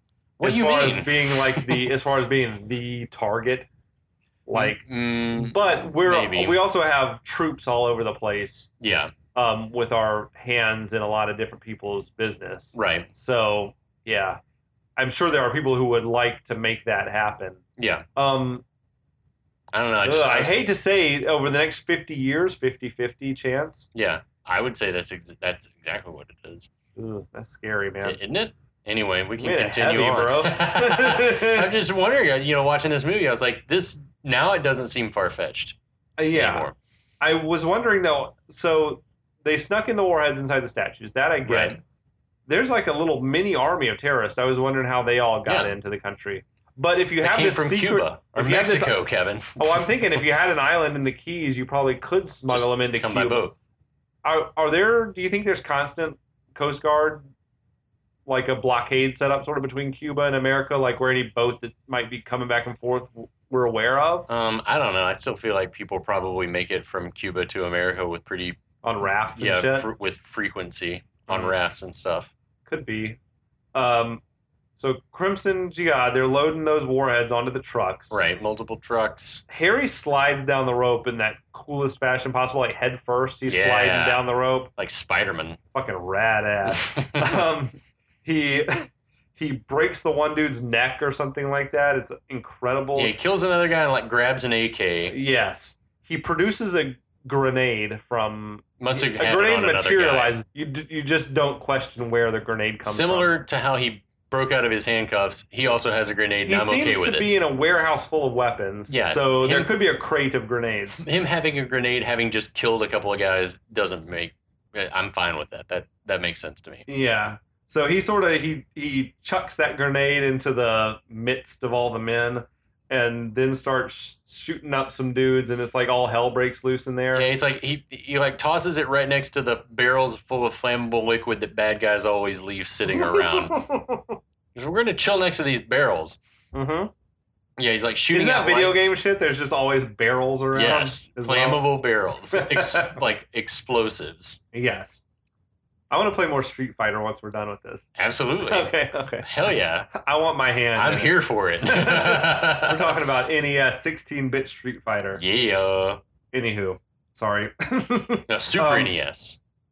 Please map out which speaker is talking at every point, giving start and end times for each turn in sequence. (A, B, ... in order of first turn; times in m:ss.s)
0:00.4-0:01.9 A
0:00.4-0:03.7 B
0:04.5-0:08.7 B
0:04.5-0:06.6 A
0:08.8-0:09.1 A
0:09.3-0:14.4 B
0:12.7-0:13.1 A
0:15.0-0:17.6 B
0:17.8-0:18.0 A
0:18.2-0:18.6 B
0:19.7-0:20.6 A
0:20.0-0:23.9 B
0:23.9-0:26.7 A
0:27.0-0:28.2 B
0:28.0-0:35.8 A
0:29.4-0:31.7 B
0:36.2-0:36.7 B
0:36.3-0:36.8 A
0:37.2-0:41.8 B
0:41.4-0:41.8 A
0:42.5-0:49.0 B
0:45.5-0:45.7 A
0:47.2-0:49.9 A
0:49.6-0:53.4 B
0:52.5-0:53.6 A
0:54.2-0:57.3 B
0:58.3-1:04.3 B
1:04.3-1:08.6 A
1:08.8-1:09.9 B
1:09.4-1:12.3 A
1:11.3-1:11.6 B
1:12.7-1:13.2 B
1:13.7-1:14.2 B
1:14.8-1:18.2 B
1:18.1-1:19.4 A
1:19.5-1:24.7 B
1:23.5-1:24.2 A
1:24.8-1:25.6 A
1:25.7-1:33.1 B
1:26.7-1:27.3 A
1:32.9-1:35.2 A
1:35.1-1:43.3 B
1:38.8-1:40.4 A
1:42.8-1:47.3 A
1:46.4-1:51.0 B
1:48.9-1:49.8 A
1:51.0-1:56.9 A
1:56.9-2:07.3 B
2:07.1-2:13.7 A
2:12.9-2:14.2 B
2:14.5-2:16.2 A
2:16.5-2:16.9 B
2:17.6-2:18.9 A
2:18.1-2:21.6 B
2:20.5-2:24.4 A
2:22.3-2:23.0 B
2:24.5-2:25.0 B
2:25.9-2:27.9 B
2:28.0-2:29.9 A
2:28.4-2:35.2 B
2:30.8-2:33.0 A
2:35.2-2:36.0 A
2:36.3-2:38.9 B
2:38.3-2:39.4 A